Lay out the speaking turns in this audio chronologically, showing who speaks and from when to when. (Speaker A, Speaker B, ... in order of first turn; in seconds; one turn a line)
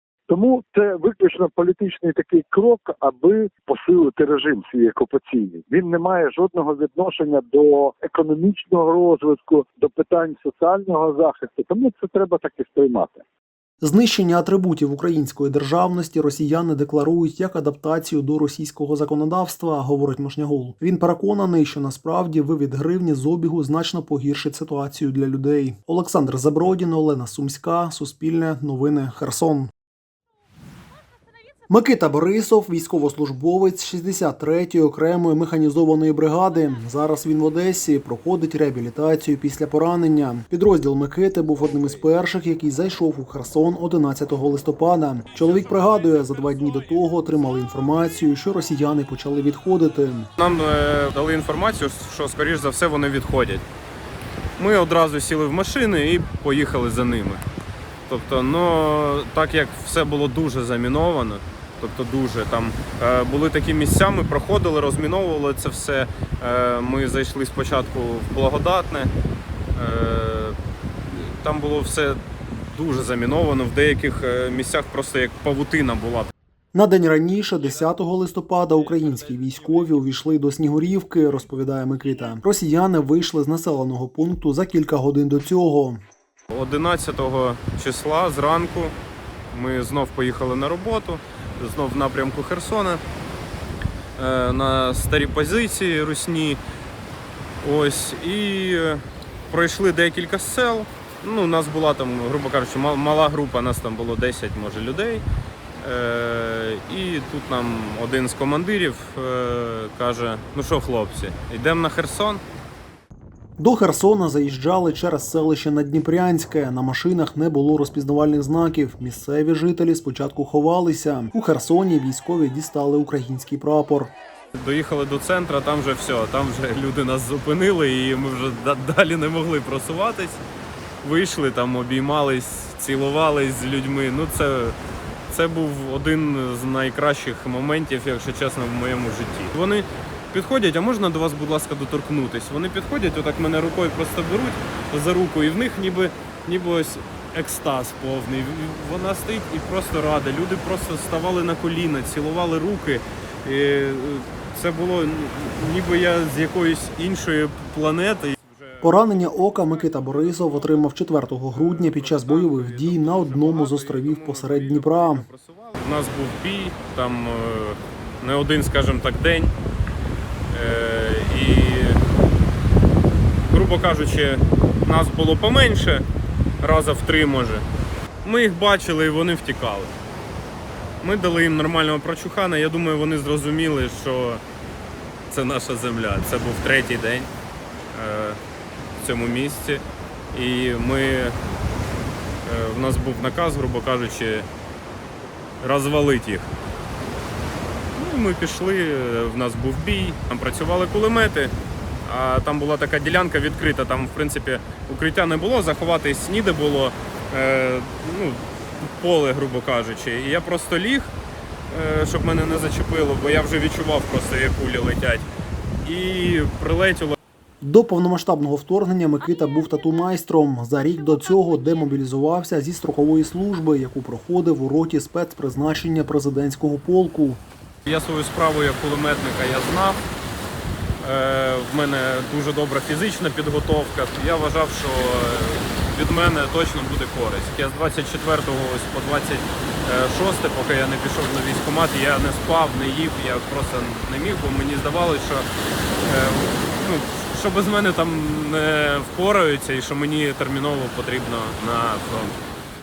Speaker A: 0.3-13.2
Speaker B: 13.8-29.7
Speaker B: 31.7-50.3
Speaker C: 50.4-53.6
Speaker C: 54.6-57.4
Speaker C: 58.1-69.1
Speaker C: 69.7-70.5
Speaker C: 71.1-76.3
Speaker B: 76.7-86.0
Speaker C: 86.5-88.9
Speaker C: 89.5-93.0
Speaker C: 94.2-96.6
Speaker C: 97.6-105.2
Speaker C: 105.8-112.4
Speaker B: 113.6-124.1
Speaker C: 124.5-130.4
Speaker C: 131.0-134.8
Speaker C: 135.3-160.8
Speaker B: 158.8-165.2
Speaker C: 161.5-169.5
Speaker C: 170.5-172.0
Speaker C: 173.4-176.1
Speaker C: 176.6-177.7
Speaker C: 178.2-179.9
Speaker C: 181.0-184.4
Speaker C: 185.3-187.3
Speaker C: 187.9-188.4
Speaker C: 189.0-189.8
Speaker C: 190.3-191.3
Speaker C: 192.4-194.5
Speaker C: 195.6-196.5
Speaker C: 197.9-201.5
Speaker C: 202.0-211.1
Speaker C: 211.7-215.3
Speaker C: 215.8-217.2
Speaker B: 217.6-227.4
Speaker C: 227.8-230.0
Speaker C: 231.0-245.5
Speaker C: 246.0-252.3